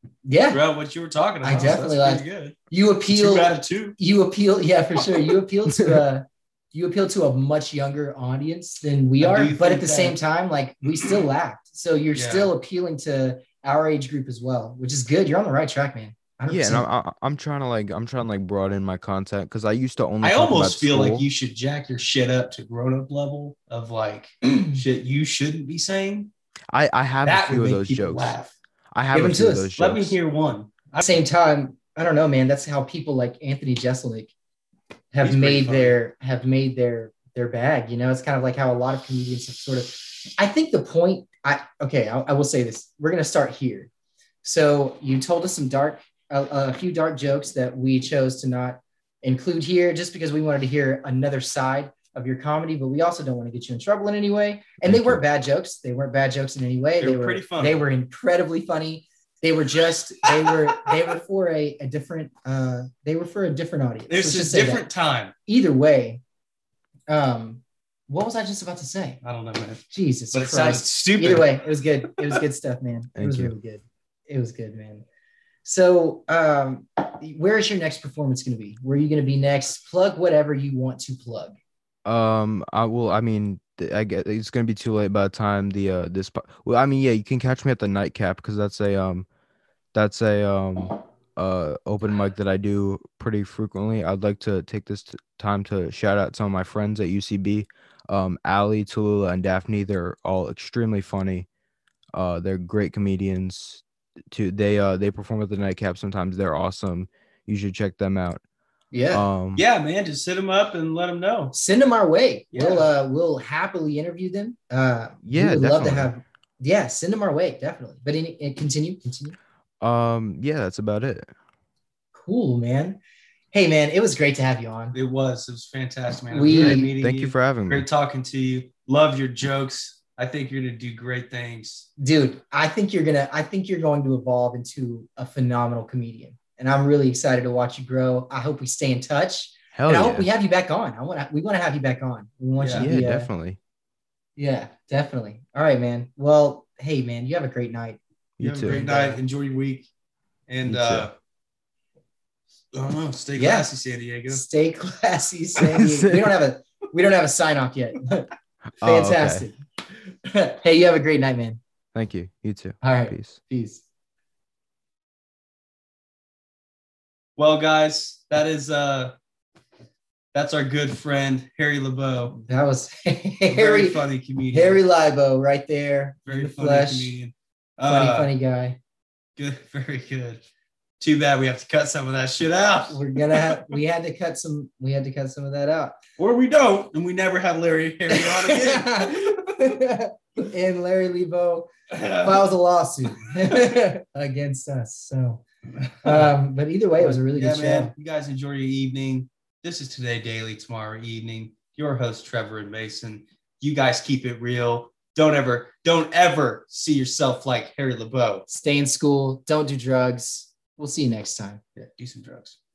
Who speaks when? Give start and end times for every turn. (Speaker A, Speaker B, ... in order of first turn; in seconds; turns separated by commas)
Speaker A: 0.2-0.6, Speaker B: 0.5-2.5, Speaker A: 1.4-16.9, Speaker B: 3.1-4.0, Speaker B: 9.2-10.2, Speaker B: 10.8-11.2, Speaker B: 12.1-12.5, Speaker C: 16.5-21.2, Speaker B: 20.2-26.3, Speaker C: 26.7-28.4, Speaker B: 27.2-28.5, Speaker C: 28.9-30.2, Speaker A: 29.1-29.7, Speaker B: 29.8-31.2, Speaker A: 31.0-34.3, Speaker A: 35.1-43.9, Speaker B: 35.2-36.0, Speaker A: 44.4-64.9, Speaker C: 54.8-55.2, Speaker B: 57.0-57.8, Speaker B: 60.3-60.9, Speaker B: 64.1-65.3, Speaker A: 65.5-66.2, Speaker A: 67.1-69.2, Speaker B: 69.2-72.4, Speaker A: 69.9-75.0, Speaker C: 73.1-73.5, Speaker A: 75.6-81.5, Speaker C: 82.0-89.2, Speaker C: 89.9-101.5, Speaker C: 102.1-108.4, Speaker A: 108.9-109.3, Speaker C: 109.1-109.6, Speaker B: 109.5-111.5, Speaker A: 111.5-119.3, Speaker B: 112.5-112.9, Speaker C: 115.2-116.1, Speaker C: 119.8-121.3, Speaker A: 122.1-123.0, Speaker A: 123.5-125.0, Speaker B: 124.9-131.9, Speaker A: 126.3-126.9, Speaker C: 126.5-127.9, Speaker A: 132.0-143.3, Speaker C: 139.7-140.3, Speaker B: 142.6-142.9, Speaker C: 142.7-143.6, Speaker A: 144.3-148.0, Speaker C: 148.4-148.8, Speaker B: 148.4-149.9, Speaker A: 148.7-149.2, Speaker B: 150.5-151.1, Speaker C: 150.6-151.1, Speaker B: 152.7-154.4, Speaker A: 153.4-153.7, Speaker A: 154.3-158.3, Speaker C: 155.7-156.3, Speaker C: 158.8-159.4, Speaker A: 158.8-161.6, Speaker C: 161.9-163.4, Speaker A: 162.8-163.8, Speaker B: 167.4-169.1, Speaker B: 170.3-172.4, Speaker A: 172.3-174.0, Speaker B: 173.5-174.8, Speaker A: 174.5-177.1, Speaker B: 176.3-178.3, Speaker A: 177.9-178.8, Speaker B: 179.4-180.4, Speaker B: 181.0-183.8, Speaker A: 182.9-186.0, Speaker B: 186.2-189.2, Speaker A: 188.1-195.4, Speaker B: 191.9-192.4, Speaker B: 195.9-196.3, Speaker A: 196.0-197.9, Speaker B: 197.0-208.5, Speaker A: 208.5-211.6, Speaker B: 211.8-212.6